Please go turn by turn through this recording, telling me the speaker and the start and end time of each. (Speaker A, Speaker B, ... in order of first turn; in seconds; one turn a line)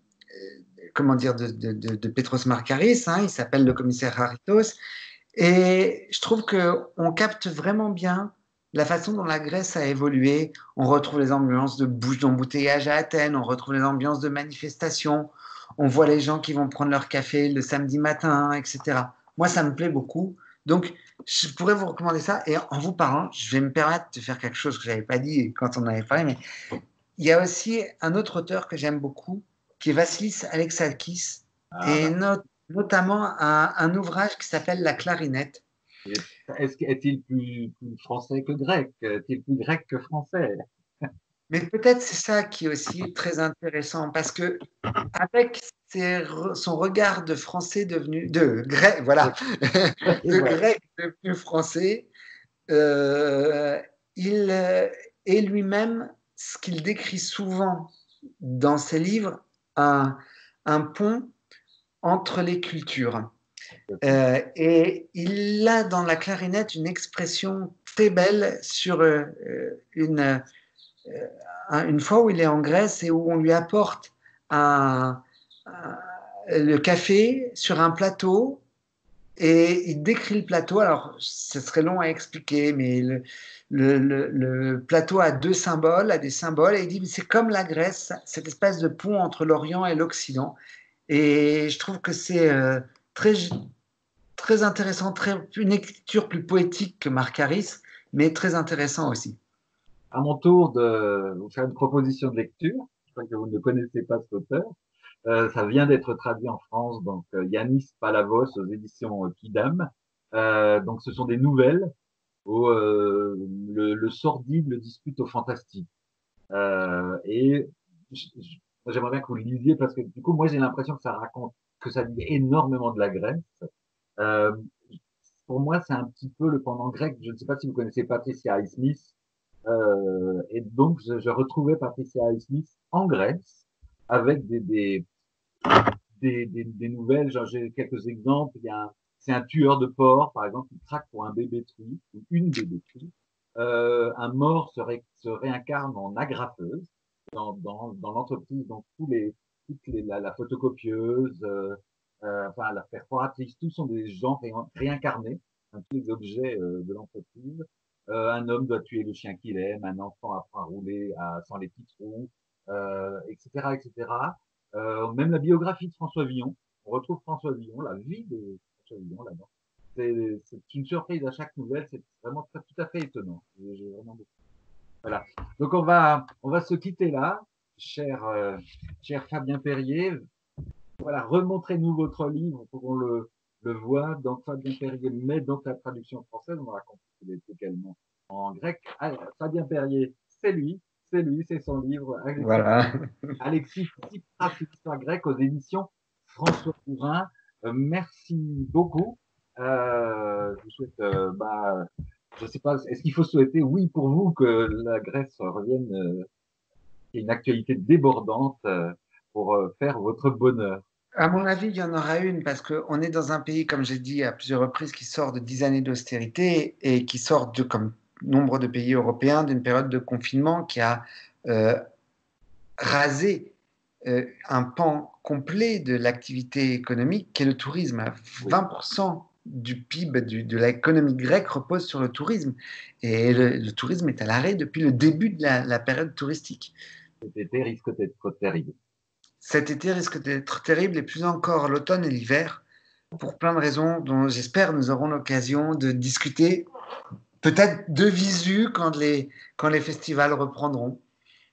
Speaker A: 0.4-4.8
Speaker A: 5.3-26.4
Speaker A: 27.2-35.6
Speaker B: 31.7-32.2
Speaker B: 36.1-40.6
Speaker A: 41.5-52.1
Speaker B: 50.0-50.6
Speaker A: 52.7-61.3
Speaker A: 62.0-63.3
Speaker B: 63.9-64.2
Speaker A: 64.0-70.4
Speaker A: 71.1-78.6
Speaker A: 79.4-90.6
Speaker A: 91.1-93.7
Speaker A: 94.4-99.4
Speaker B: 100.1-104.7
Speaker B: 105.3-111.9
Speaker B: 112.5-115.9
Speaker B: 116.5-123.7
Speaker B: 124.2-124.6
Speaker B: 125.5-129.1
Speaker B: 129.7-135.1
Speaker B: 135.7-174.3
Speaker B: 175.0-180.2
Speaker B: 181.0-192.8
Speaker A: 192.4-193.4
Speaker B: 193.4-201.9
Speaker B: 202.4-206.3
Speaker B: 207.1-210.8
Speaker A: 211.2-221.8
Speaker A: 222.8-223.5
Speaker A: 224.1-236.7
Speaker B: 237.2-238.7
Speaker A: 239.4-242.6
Speaker A: 243.2-246.7
Speaker A: 247.4-251.0